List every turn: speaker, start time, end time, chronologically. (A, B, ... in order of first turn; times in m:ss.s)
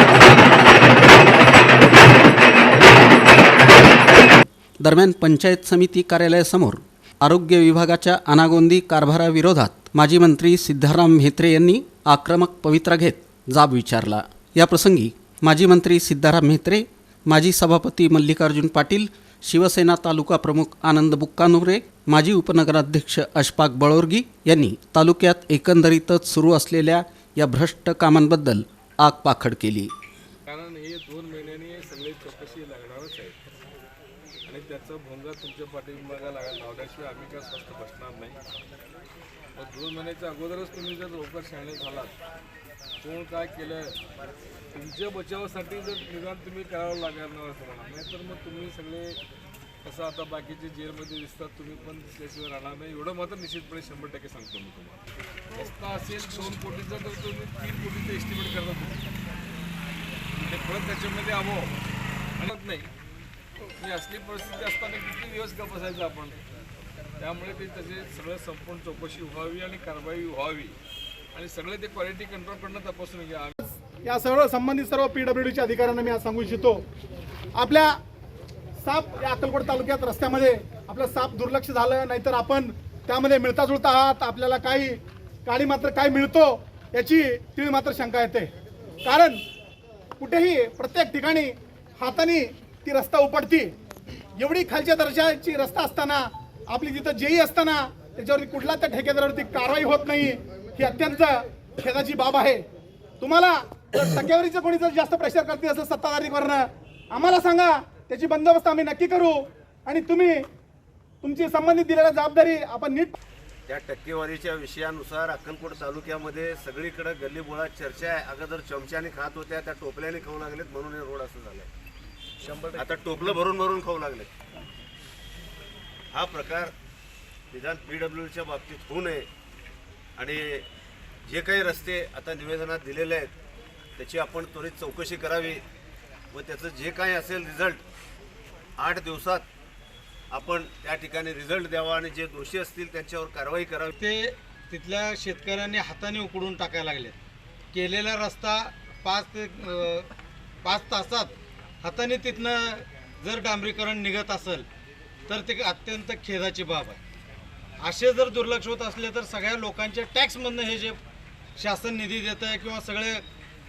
0:04.8-0:29.9 A
0:30.4-0:33.4 B
0:34.4-0:38.4 B
0:39.5-0:42.2 B
0:43.0-0:44.0 B
0:44.7-0:49.2 B
0:49.8-0:59.0 B
1:00.4-1:01.7 B
1:02.4-1:02.9 B
1:03.8-1:06.4 B
1:07.2-1:10.8 B
1:11.3-1:13.6 B
1:14.0-1:16.8 C
1:17.5-1:17.9 C
1:18.8-1:28.5 C
1:29.0-1:29.4 C
1:30.2-1:33.7 C
1:34.4-1:36.2 C
1:36.7-1:42.6 C
1:43.2-1:50.4 C
1:51.2-1:53.2 C
1:53.7-2:01.7 D
2:02.6-2:02.9 E
2:02.8-2:04.3 D
2:06.1-2:06.7 D
2:07.5-2:09.3 D
2:10.2-2:10.6 D
2:11.2-2:13.3 D
2:14.0-2:15.6 D
2:16.3-2:17.8 D
2:18.8-2:19.4 D
2:20.3-2:23.9 D
2:24.0-2:27.2 E
2:27.7-2:30.1 E
2:30.6-2:34.7 E
2:35.3-2:37.0 E
2:37.8-2:41.0 E
2:41.6-2:43.2 E